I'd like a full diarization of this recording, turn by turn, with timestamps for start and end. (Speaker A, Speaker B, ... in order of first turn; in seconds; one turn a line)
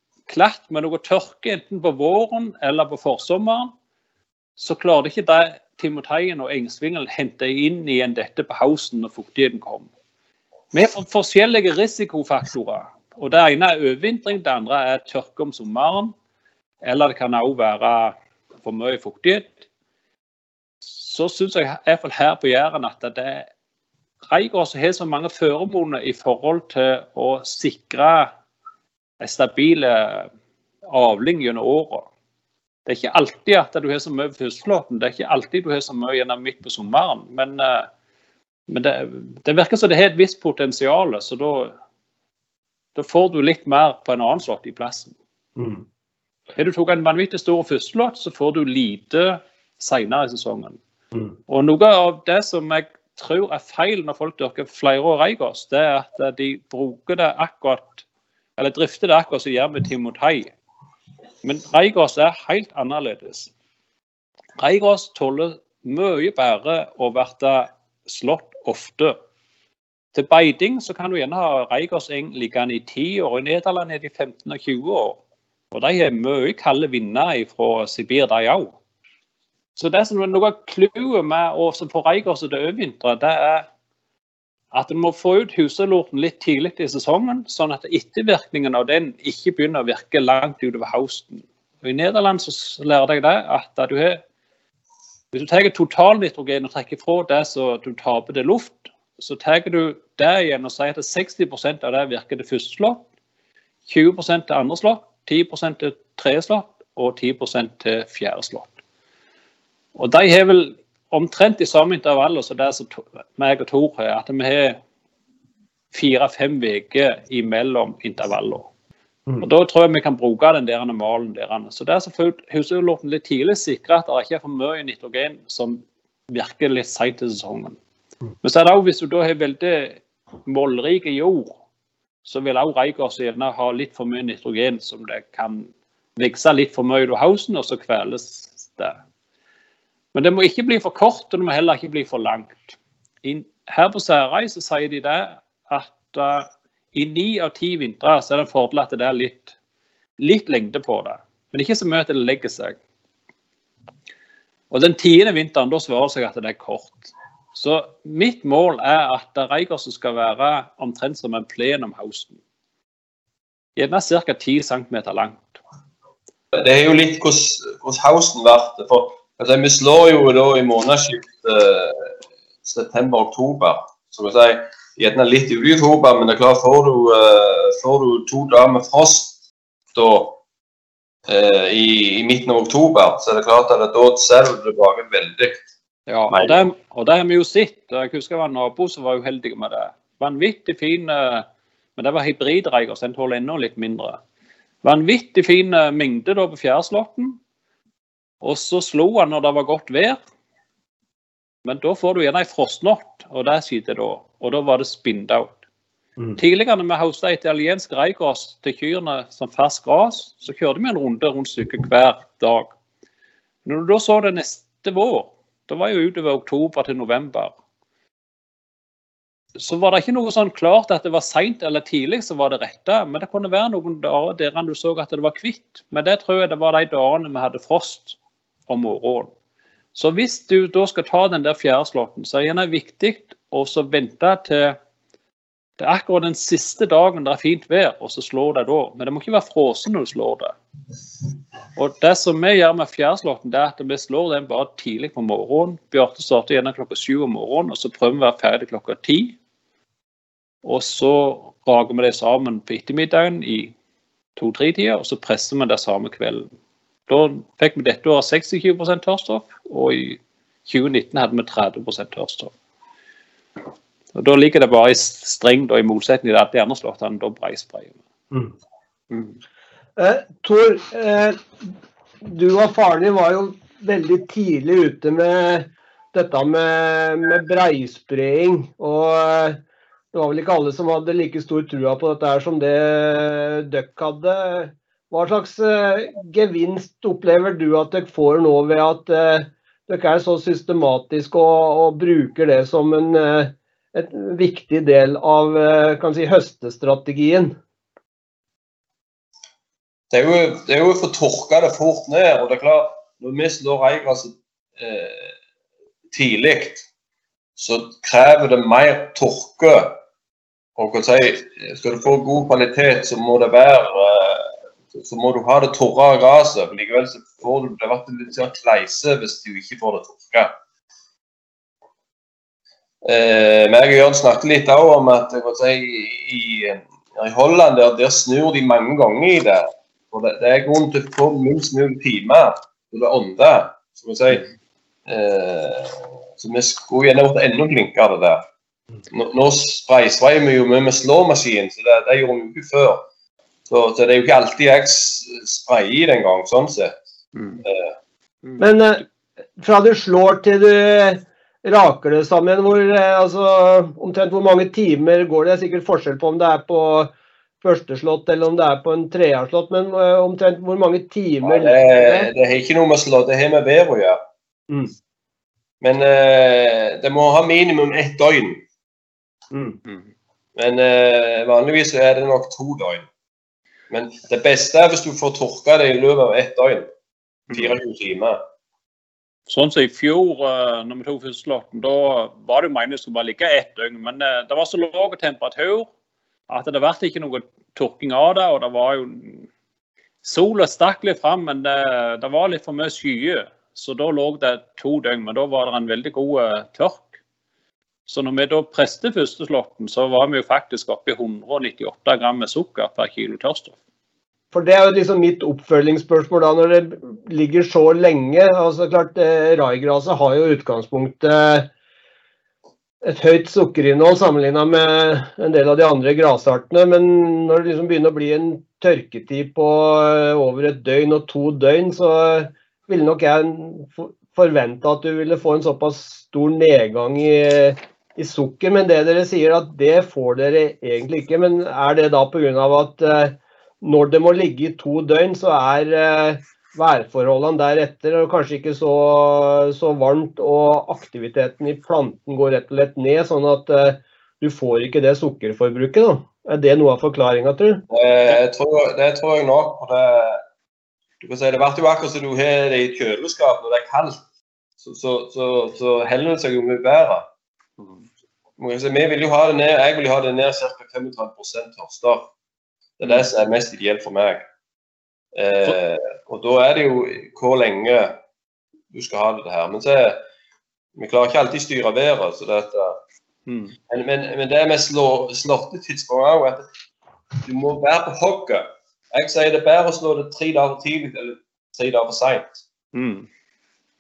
Speaker A: 0.3-3.7
Speaker A: 4.6-9.9
Speaker A: 10.7-16.1
Speaker A: 16.8-19.6
Speaker A: 20.9-23.5
Speaker A: 24.3-28.3
Speaker A: 29.2-30.3
Speaker A: 30.9-32.1
Speaker A: 32.9-37.9
Speaker A: 38.7-41.7
Speaker A: 42.9-45.1
Speaker B: 45.6-45.8
Speaker A: 46.5-50.8
Speaker A: 51.5-58.0
Speaker A: 58.6-60.5
Speaker A: 61.4-63.5
Speaker A: 64.6-69.2
Speaker A: 70.1-75.2
Speaker A: 75.7-78.7
Speaker A: 79.8-83.7
Speaker A: 84.7-94.2
Speaker A: 95.3-103.0
Speaker A: 103.9-108.7
Speaker A: 109.9-114.8
Speaker A: 115.9-118.7
Speaker A: 119.4-127.8
Speaker A: 128.4-131.5
Speaker A: 132.2-138.9
Speaker A: 140.1-149.6
Speaker A: 150.2-152.8
Speaker A: 154.7-162.4
Speaker A: 163.8-165.6
Speaker C: 166.5-172.1
Speaker C: 172.6-179.3
Speaker C: 179.9-180.4
Speaker C: 181.3-185.6
Speaker A: 186.1-191.4
Speaker C: 186.3-186.6
Speaker A: 192.0-194.2
Speaker A: 194.8-197.4
Speaker A: 198.4-200.2
Speaker A: 201.6-205.6
Speaker A: 206.4-212.7
Speaker A: 213.6-217.5
Speaker A: 219.6-228.2
Speaker A: 228.7-229.3
Speaker A: 229.9-234.8
Speaker A: 235.8-240.6
Speaker A: 241.8-249.4
Speaker A: 250.6-253.7
Speaker A: 254.4-256.5
Speaker A: 257.1-262.5
Speaker A: 264.1-268.0
Speaker B: 270.0-271.7
Speaker B: 272.2-279.6
Speaker B: 280.1-297.5
Speaker C: 300.1-305.3
Speaker C: 306.1-306.9
Speaker C: 307.6-310.0
Speaker C: 310.8-320.5
Speaker C: 323.0-334.5
Speaker C: 335.1-338.4
Speaker C: 339.1-343.0
Speaker C: 343.7-346.9
Speaker A: 347.4-347.6
Speaker C: 347.6-347.9
Speaker B: 348.6-349.0
Speaker B: 349.6-362.3
Speaker C: 361.4-364.2
Speaker C: 365.8-368.6
Speaker B: 369.5-369.8
Speaker C: 370.6-373.1
Speaker C: 373.9-376.9
Speaker C: 377.5-378.4
Speaker A: 379.5-385.9
Speaker A: 386.5-389.5
Speaker A: 390.2-397.1
Speaker A: 398.1-403.7
Speaker B: 404.5-411.7
Speaker B: 413.0-447.8
Speaker C: 447.9-450.4
Speaker C: 451.2-454.2
Speaker C: 454.8-457.2
Speaker C: 458.6-462.3
Speaker C: 463.0-464.4
Speaker C: 465.3-468.1
Speaker C: 468.9-470.2
Speaker C: 470.9-473.0
Speaker A: 473.4-473.8
Speaker C: 473.9-476.6
Speaker C: 477.4-482.6
Speaker A: 482.9-483.3